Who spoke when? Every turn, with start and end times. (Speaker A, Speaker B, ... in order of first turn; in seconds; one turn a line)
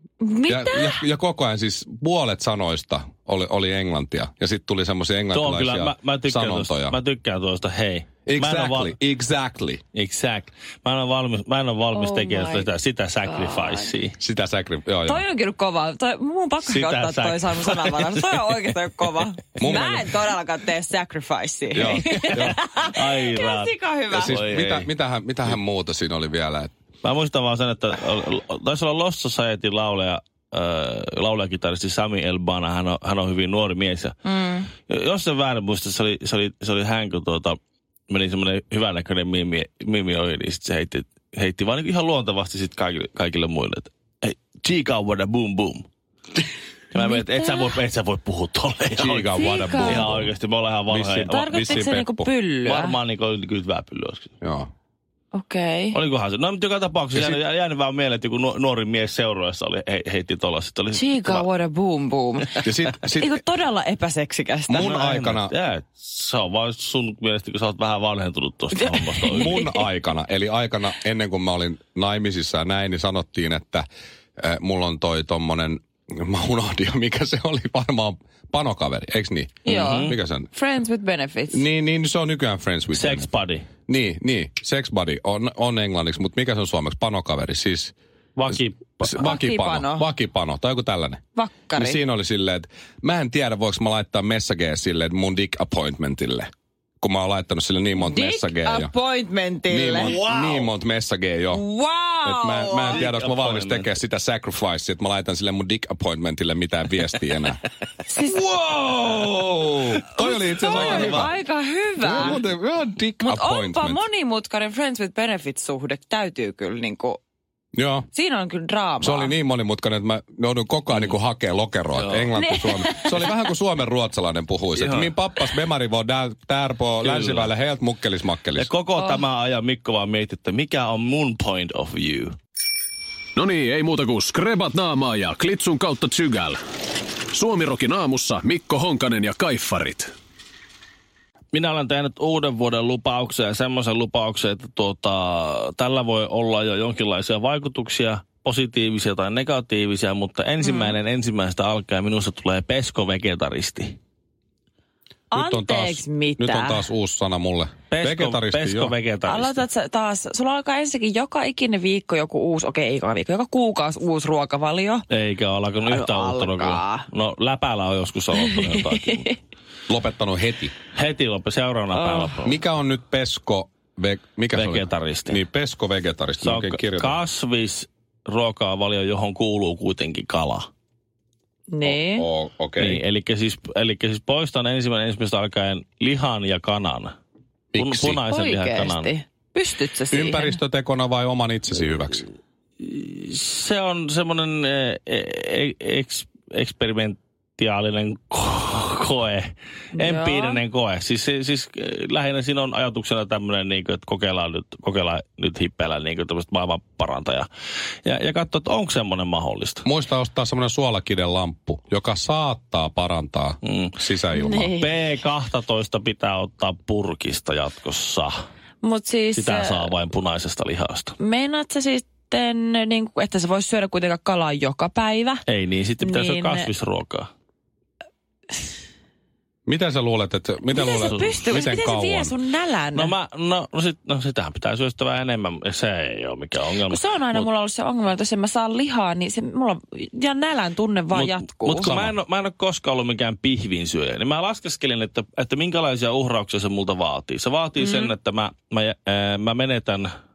Speaker A: 0.2-1.0
Speaker B: 0.5-7.0
Speaker C: 5.3-8.9
Speaker B: 8.3-9.8
Speaker C: 9.9-14.2
Speaker A: 11.9-12.7
Speaker A: 13.2-13.9
Speaker B: 14.2-15.2
Speaker A: 15.1-24.4
Speaker C: 16.7-18.7
Speaker B: 19.6-20.3
Speaker B: 21.7-22.6
Speaker C: 22.0-24.9
Speaker B: 24.1-26.7
Speaker C: 27.0-34.2
Speaker A: 34.3-34.7
Speaker C: 34.9-37.6
Speaker C: 38.1-45.9
Speaker C: 46.9-51.8
Speaker A: 47.0-47.8
Speaker B: 49.0-50.3
Speaker A: 49.3-50.1
Speaker B: 50.9-52.3
Speaker A: 51.3-53.0
Speaker C: 52.6-54.3
Speaker B: 54.4-54.7
Speaker A: 55.3-56.0
Speaker C: 55.9-61.5
Speaker B: 57.1-57.4
Speaker A: 60.9-64.9
Speaker B: 62.6-63.4
Speaker B: 64.7-65.5
Speaker C: 64.8-69.6
Speaker A: 68.7-69.9
Speaker B: 69.3-73.8
Speaker B: 74.4-80.5
Speaker A: 79.7-81.7
Speaker C: 79.7-80.2
Speaker B: 81.5-83.3
Speaker C: 82.9-83.7
Speaker B: 83.9-87.9
Speaker C: 88.4-89.0
Speaker B: 89.0-91.2
Speaker A: 89.1-90.1
Speaker A: 91.4-92.0
Speaker B: 91.7-96.5
Speaker B: 97.0-98.9
Speaker A: 98.0-100.2
Speaker B: 99.7-101.6
Speaker C: 100.0-100.7
Speaker A: 101.5-103.0
Speaker B: 102.2-107.6
Speaker C: 102.9-103.9
Speaker A: 108.1-109.2
Speaker B: 108.3-111.3
Speaker A: 110.2-112.4
Speaker C: 110.6-111.3
Speaker B: 112.0-114.0
Speaker A: 113.2-117.2
Speaker B: 117.7-118.1
Speaker A: 118.1-119.3
Speaker B: 119.0-128.7
Speaker C: 122.0-122.3
Speaker A: 122.3-123.4
Speaker C: 124.8-125.1
Speaker C: 127.0-127.5
Speaker C: 128.6-132.4
Speaker D: 133.4-136.6
Speaker D: 137.3-140.1
Speaker C: 141.5-154.0
Speaker A: 150.6-151.0
Speaker A: 155.3-156.8
Speaker B: 155.3-159.0
Speaker C: 157.9-159.6
Speaker A: 159.2-165.0
Speaker C: 165.1-169.3
Speaker A: 165.9-167.1
Speaker A: 168.5-169.3
Speaker B: 169.9-170.7
Speaker C: 170.9-172.6
Speaker A: 171.9-172.3
Speaker B: 172.4-177.2
Speaker C: 174.5-175.4
Speaker C: 176.4-180.7
Speaker A: 181.7-182.3
Speaker B: 181.8-183.0
Speaker C: 182.8-187.2
Speaker B: 187.7-188.2
Speaker C: 187.8-189.1
Speaker A: 188.2-190.6
Speaker B: 190.1-192.3
Speaker C: 192.8-207.5
Speaker A: 200.0-200.6
Speaker C: 208.1-209.8
Speaker B: 209.8-214.7
Speaker C: 213.6-213.9
Speaker A: 214.3-214.9
Speaker C: 214.8-218.4
Speaker A: 218.8-219.9
Speaker C: 219.3-221.2
Speaker A: 221.2-225.4
Speaker C: 225.5-227.3
Speaker A: 226.0-226.7
Speaker B: 229.7-232.3
Speaker A: 230.7-233.1
Speaker C: 231.0-231.8
Speaker C: 232.9-237.5
Speaker A: 236.9-241.9
Speaker C: 241.1-250.1
Speaker B: 241.7-242.2
Speaker A: 247.8-248.1